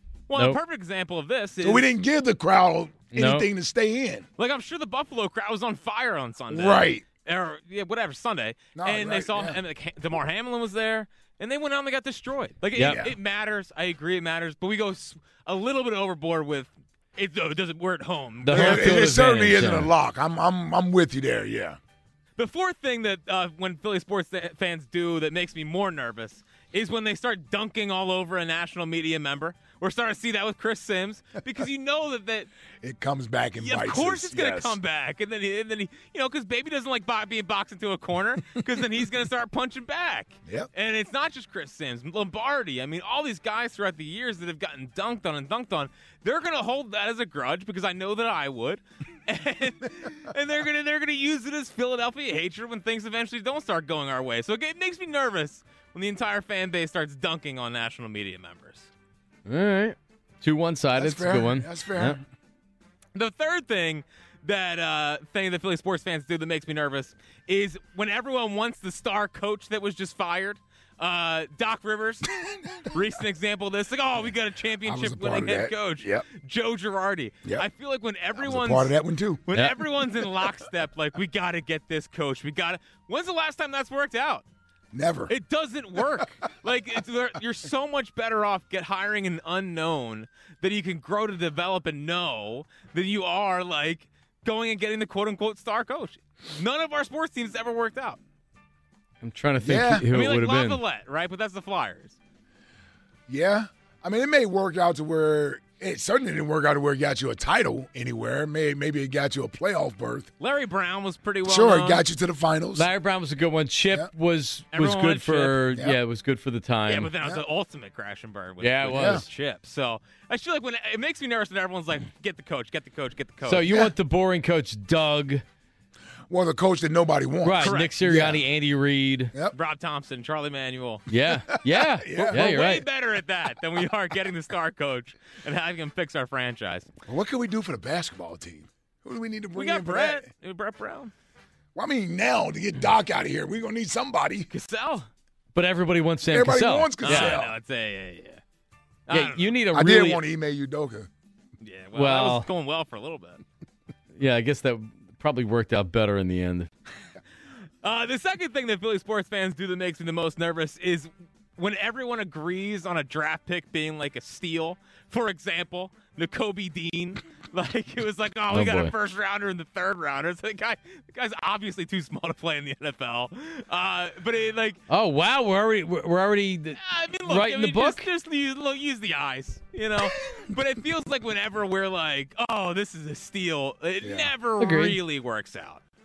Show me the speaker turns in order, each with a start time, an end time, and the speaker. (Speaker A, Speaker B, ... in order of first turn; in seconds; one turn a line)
Speaker A: 0.3-1.9
Speaker B: 0.3-0.6
Speaker C: 1.6-4.3
Speaker B: 3.1-3.5
Speaker A: 4.4-19.1
Speaker C: 6.5-7.0
Speaker C: 8.7-9.6
Speaker B: 12.8-13.0
Speaker C: 12.8-13.1
Speaker B: 18.4-19.9
Speaker C: 18.5-21.8
Speaker A: 22.4-32.5
Speaker C: 32.8-34.8
Speaker A: 33.6-58.9
Speaker B: 59.5-62.1
Speaker C: 61.0-62.2
Speaker A: 63.1-72.3
Speaker C: 72.4-72.9
Speaker A: 72.9-78.9
Speaker C: 74.8-76.2
Speaker C: 78.3-79.4
Speaker A: 79.5-84.4
Speaker C: 84.9-85.3
Speaker A: 85.3-98.2
Speaker B: 99.2-100.8
Speaker C: 99.6-100.0
Speaker A: 100.1-102.2
Speaker C: 103.3-110.3
Speaker A: 110.4-112.0
Speaker C: 111.4-112.9
Speaker B: 112.7-117.1
Speaker A: 114.7-115.6
Speaker A: 116.9-123.6
Speaker B: 118.6-119.2
Speaker C: 118.8-119.2
Speaker B: 123.4-125.4
Speaker C: 123.7-123.9
Speaker C: 126.3-128.4
Speaker B: 127.4-129.3
Speaker A: 127.6-128.0
Speaker A: 129.5-131.1
Speaker B: 131.1-132.8
Speaker C: 131.6-132.5
Speaker A: 132.3-136.9
Speaker C: 137.1-140.3
Speaker A: 139.6-141.1
Speaker C: 141.7-144.5
Speaker A: 144.5-145.1
Speaker B: 145.5-147.4
Speaker C: 146.3-147.5
Speaker A: 147.0-148.4
Speaker A: 149.1-149.5
Speaker B: 149.1-150.2
Speaker C: 149.7-151.1
Speaker A: 151.6-153.4
Speaker B: 151.9-152.5
Speaker B: 154.2-156.7
Speaker A: 157.8-174.8
Speaker B: 168.5-168.9
Speaker B: 174.9-178.1
Speaker A: 176.8-185.8
Speaker C: 184.0-184.3
Speaker B: 184.6-185.0